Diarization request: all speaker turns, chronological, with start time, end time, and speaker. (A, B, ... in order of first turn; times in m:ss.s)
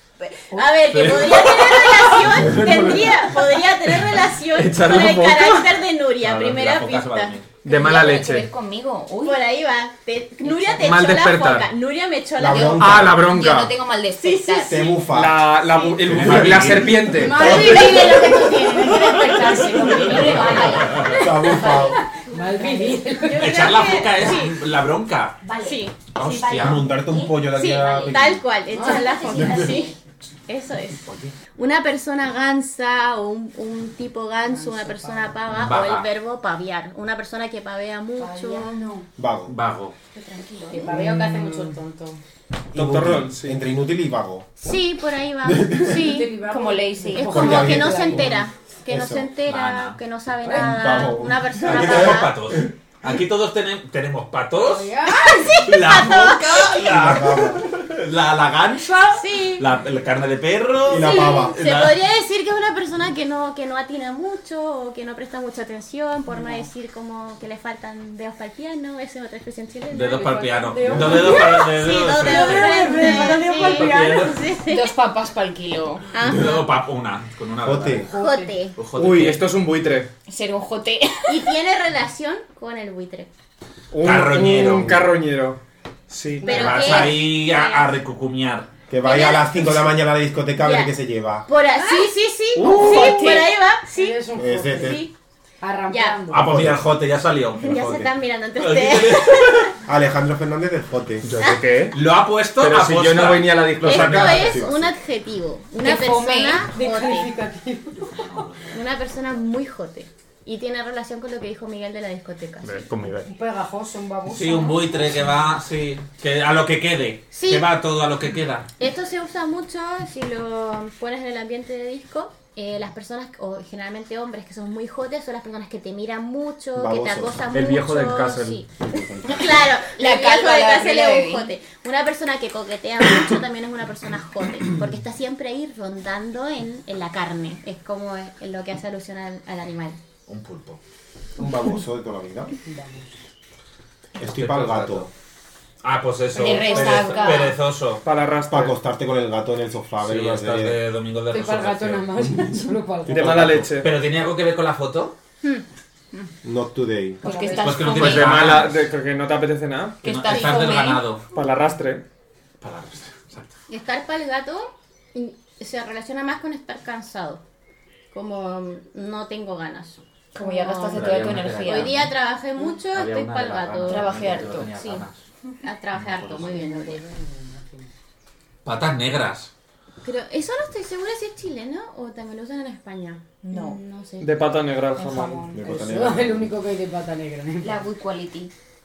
0:00.2-0:07.4 A
0:00.5-0:00.9 B
0:00.9-0:02.9 C
0:02.2-0:03.1 D
0:04.5-0:05.7 E
0:06.2-0:07.5 C
0:07.6-0:08.5 E
0:07.6-0:09.4 F
0:09.2-0:13.0 A
0:10.4-0:10.8 F
0:10.8-0:11.7 E
0:12.4-0:13.3 D
0:12.5-0:14.9 F
0:12.7-0:13.7 E
0:14.2-0:15.1 A
0:14.6-0:18.2 D
0:15.1-0:17.4 E
0:15.6-0:15.9 A
0:16.0-0:18.2 C
0:17.1-0:24.4 B
0:17.4-0:18.9 A
0:19.5-0:21.2 C
0:19.7-0:21.8 F
0:20.2-0:22.0 A
0:21.0-0:22.0 D
0:22.5-0:24.6 A
0:23.3-0:25.4 C
0:25.4-0:29.9 F
0:25.5-0:26.6 A
0:26.1-0:26.9 C
0:26.5-0:28.4 D
0:27.4-0:29.9 A
0:28.7-0:29.8 B
0:29.4-0:29.8 D
0:30.5-0:38.7 A
0:31.0-0:31.4 C
0:34.5-0:35.4 B
0:35.5-0:36.1 C
0:38.2-0:38.7 F
0:38.4-0:39.1 B
0:39.2-0:39.5 D
0:39.5-0:39.9 C
0:40.1-0:41.0 F
0:40.7-0:42.2 B
0:40.9-0:41.4 E
0:42.7-0:43.6 E
0:42.7-0:44.5 D
0:44.6-0:46.3 A
0:45.4-0:46.1 D
0:45.7-0:48.4 B
0:46.4-0:47.7 F
0:47.1-0:52.3 A
0:47.3-0:49.3 D
0:49.4-0:50.0 C
0:50.4-0:52.7 D
0:51.6-0:54.9 C
0:54.6-0:55.6 B
0:55.1-0:56.9 A
0:55.6-1:02.0 C
0:56.9-0:57.7 D
0:59.1-0:59.7 A
1:00.8-1:01.6 D
1:01.0-1:14.9 A
1:06.3-1:06.7 B
1:09.9-1:14.4 C
1:10.2-1:11.6 B
1:10.9-1:11.4 D
1:12.2-1:13.8 B
1:12.3-1:16.0 F
1:16.1-1:16.6 A
1:16.2-1:18.1 C
1:17.6-1:18.1 D
1:18.0-1:18.6 B
1:18.2-1:18.8 A
1:18.8-1:19.5 C
1:18.9-1:20.1 E
1:20.3-1:21.5 F
1:21.3-1:23.3 A
1:23.9-1:26.6 E
1:24.0-1:25.0 C
1:24.6-1:25.0 D
1:26.4-1:27.2 B
1:26.4-1:27.9 A
1:26.4-1:28.7 C
1:28.9-1:31.5 D
1:29.0-1:29.8 A
1:30.6-1:30.9 A
1:31.5-1:35.1 A
1:31.7-1:32.1 F
1:32.6-1:33.4 E
1:32.7-1:33.5 F
1:32.9-1:33.2 B
1:33.9-1:35.0 B
1:34.3-1:35.0 D
1:35.6-1:36.6 B
1:35.9-1:36.2 A
1:36.3-1:37.9 C
1:36.3-1:36.8 D
1:37.6-1:39.7 A
1:37.6-1:38.1 D
1:38.6-1:39.8 C
1:39.8-1:41.3 D
1:41.2-1:42.0 E
1:41.9-1:44.6 C
1:42.6-1:44.6 E
1:43.8-1:47.3 A
1:44.0-1:44.9 D
1:45.8-1:46.6 F
1:46.4-1:48.2 B
1:47.9-1:48.8 C
1:48.7-1:52.8 A
1:52.6-1:53.3 E
1:53.2-1:55.0 B
1:54.3-1:58.7 C
1:57.3-1:57.7 A
1:58.8-2:08.7 A
2:06.7-2:07.4 D
2:07.5-2:08.6 E
2:08.7-2:09.8 D
2:09.2-2:20.0 A
2:09.8-2:11.5 F
2:20.3-2:20.8 C
2:21.4-2:22.5 D
2:22.7-2:23.1 B
2:24.2-2:25.1 D
2:24.2-2:25.1 C
2:25.8-2:28.0 C
2:26.3-2:27.4 B
2:26.3-2:27.6 F
2:28.0-2:28.8 E
2:28.5-2:30.8 D
2:30.0-2:32.4 C
2:31.3-2:33.5 B
2:33.0-2:33.8 D
2:33.0-2:33.9 E
2:33.6-2:35.2 C
2:35.4-2:36.3 A
2:36.4-2:37.2 D
2:37.2-2:38.2 B
2:37.2-2:38.4 F
2:37.3-2:38.4 A
2:37.6-2:38.9 C
2:37.9-2:40.0 E
2:40.0-2:41.0 F
2:40.0-2:41.2 C
2:40.3-2:40.8 A
2:41.3-2:42.0 E
2:42.6-2:43.5 C
2:43.7-2:47.4 A
2:48.1-2:55.0 A
2:50.3-2:52.0 F
2:50.9-2:52.2 C
2:52.9-2:55.2 C
2:53.8-2:54.7 F
2:55.6-2:57.0 A
2:55.9-2:56.6 C
2:56.3-2:57.9 B
2:58.6-2:59.5 C
3:00.0-3:04.4 A
3:03.4-3:03.8 F
3:04.2-3:05.4 E
3:04.9-3:07.8 B
3:05.5-3:06.5 D
3:07.6-3:08.5 F